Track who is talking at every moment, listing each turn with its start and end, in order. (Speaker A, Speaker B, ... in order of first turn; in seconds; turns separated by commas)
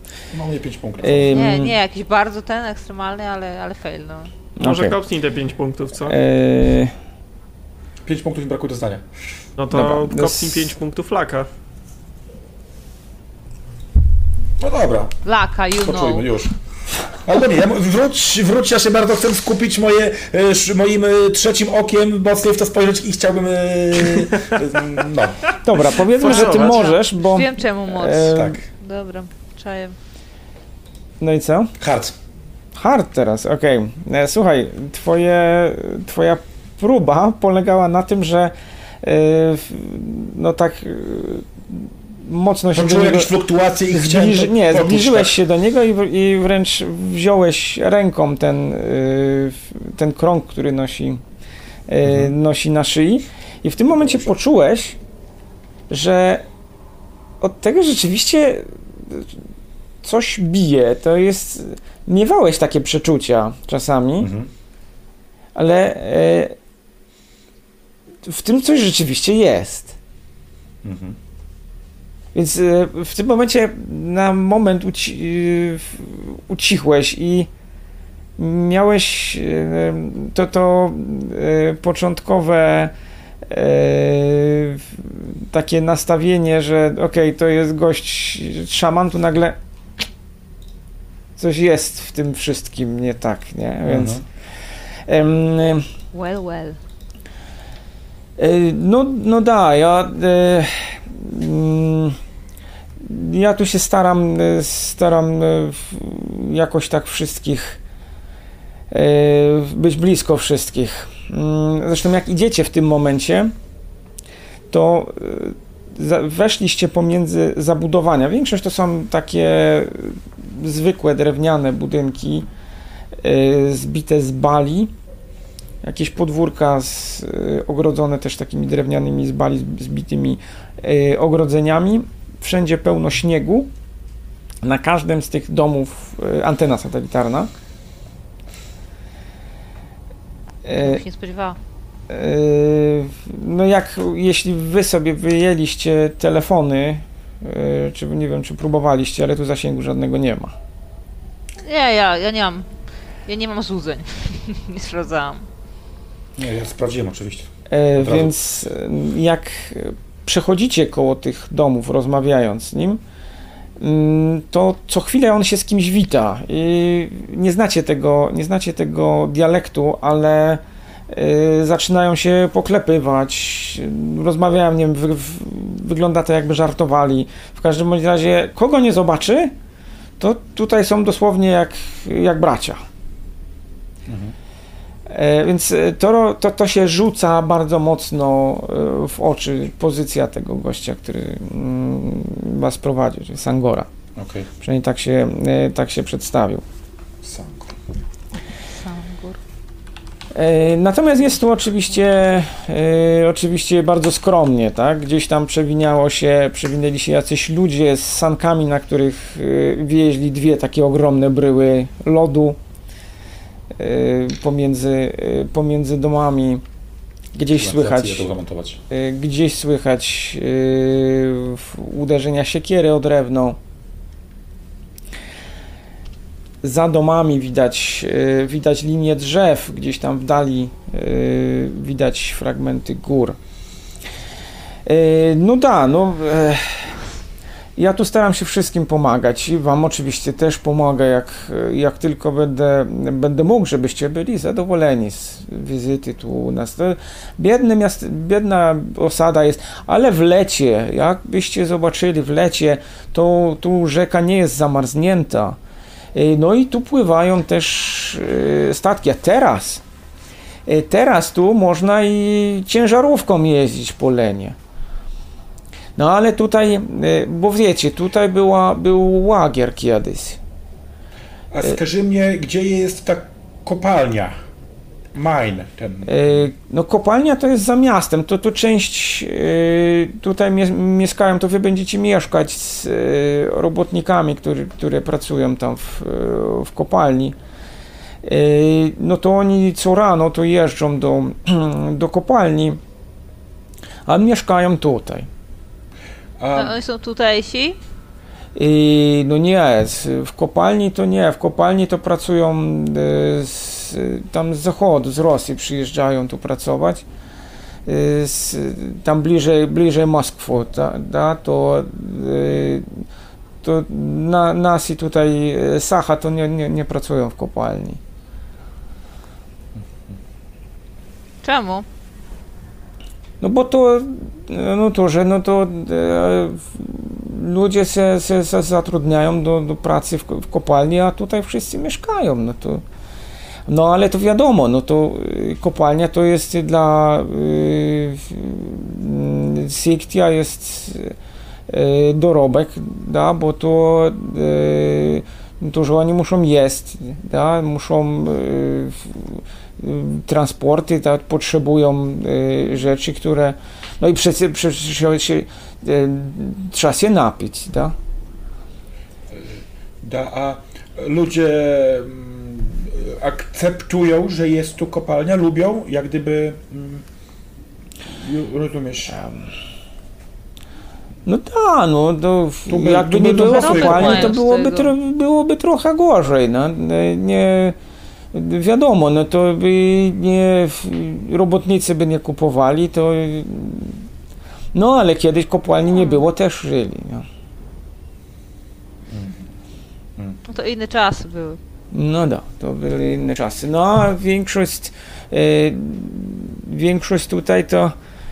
Speaker A: 0.3-1.5, Speaker B: 1.0-1.8, Speaker C: 1.3-4.3, Speaker B: 4.6-5.0, Speaker D: 4.6-6.2, Speaker B: 6.0-6.9, Speaker A: 8.0-9.1, Speaker D: 9.6-11.5, Speaker B: 9.7-10.7, Speaker A: 14.6-15.1, Speaker C: 15.2-16.3, Speaker A: 15.8-16.5, Speaker A: 17.2-25.4, Speaker B: 25.6-28.6, Speaker D: 26.2-26.9, Speaker C: 26.2-30.0, Speaker A: 28.3-28.6, Speaker B: 31.2-31.7, Speaker A: 31.8-32.1, Speaker B: 32.8-43.3, Speaker A: 42.7-45.4, Speaker B: 43.9-51.2, Speaker B: 51.9-55.0, Speaker A: 52.0-52.3, Speaker B: 55.9-56.5, Speaker B: 57.4-59.4, Speaker B: 60.0-64.3, Speaker A: 64.2-64.5, Speaker B: 65.5-66.5, Speaker B: 68.2-70.0, Speaker A: 70.8-71.2, Speaker B: 72.3-77.5, Speaker B: 78.4-82.9, Speaker B: 83.5-89.6, Speaker B: 91.4-94.2, Speaker A: 93.9-94.2, Speaker B: 95.1-95.9, Speaker C: 96.1-96.8, Speaker B: 98.4-102.2, Speaker B: 103.0-107.8, Speaker B: 108.9-113.5, Speaker B: 114.7-122.5, Speaker B: 123.2-124.9, Speaker B: 125.8-133.7, Speaker B: 134.6-137.5, Speaker B: 140.7-141.0, Speaker C: 140.8-141.6, Speaker B: 142.1-150.6, Speaker C: 151.6-152.7, Speaker C: 153.3-155.5, Speaker A: 156.4-158.3, Speaker B: 157.7-163.0, Speaker B: 163.8-179.5, Speaker B: 180.2-182.8, Speaker A: 184.1-184.3, Speaker B: 185.1-193.9, Speaker A: 194.2-194.5, Speaker B: 194.6-196.6, Speaker A: 197.2-197.8, Speaker C: 198.7-199.4, Speaker B: 200.3-212.6, Speaker B: 213.8-216.6, Speaker B: 217.3-218.3, Speaker A: 217.6-218.8, Speaker B: 218.9-223.6, Speaker B: 226.6-233.4, Speaker B: 234.8-236.9, Speaker B: 237.8-255.6, Speaker B: 256.1-259.8, Speaker B: 260.7-264.6, Speaker B: 266.0-270.4, Speaker A: 271.5-274.4, Speaker A: 275.1-276.4, Speaker B: 276.1-287.4, Speaker B: 288.2-292.8, Speaker B: 294.1-295.3, Speaker A: 296.4-296.8, Speaker C: 296.5-297.8, Speaker B: 298.6-307.1, Speaker B: 307.9-313.0, Speaker B: 313.6-318.0, Speaker C: 321.4-321.9, Speaker B: 323.4-332.8, Speaker B: 333.7-341.1, Speaker B: 341.7-357.9, Speaker A: 359.3-367.0, Speaker A: 368.1-369.2, Speaker B: 369.2-369.4, Speaker B: 371.3-377.8, Speaker A: 372.7-374.4, Speaker C: 373.4-374.9, Speaker B: 378.3-384.0, Speaker B: 384.7-387.3, Speaker C: 385.9-386.3, Speaker C: 390.5-391.6, Speaker B: 391.9-397.9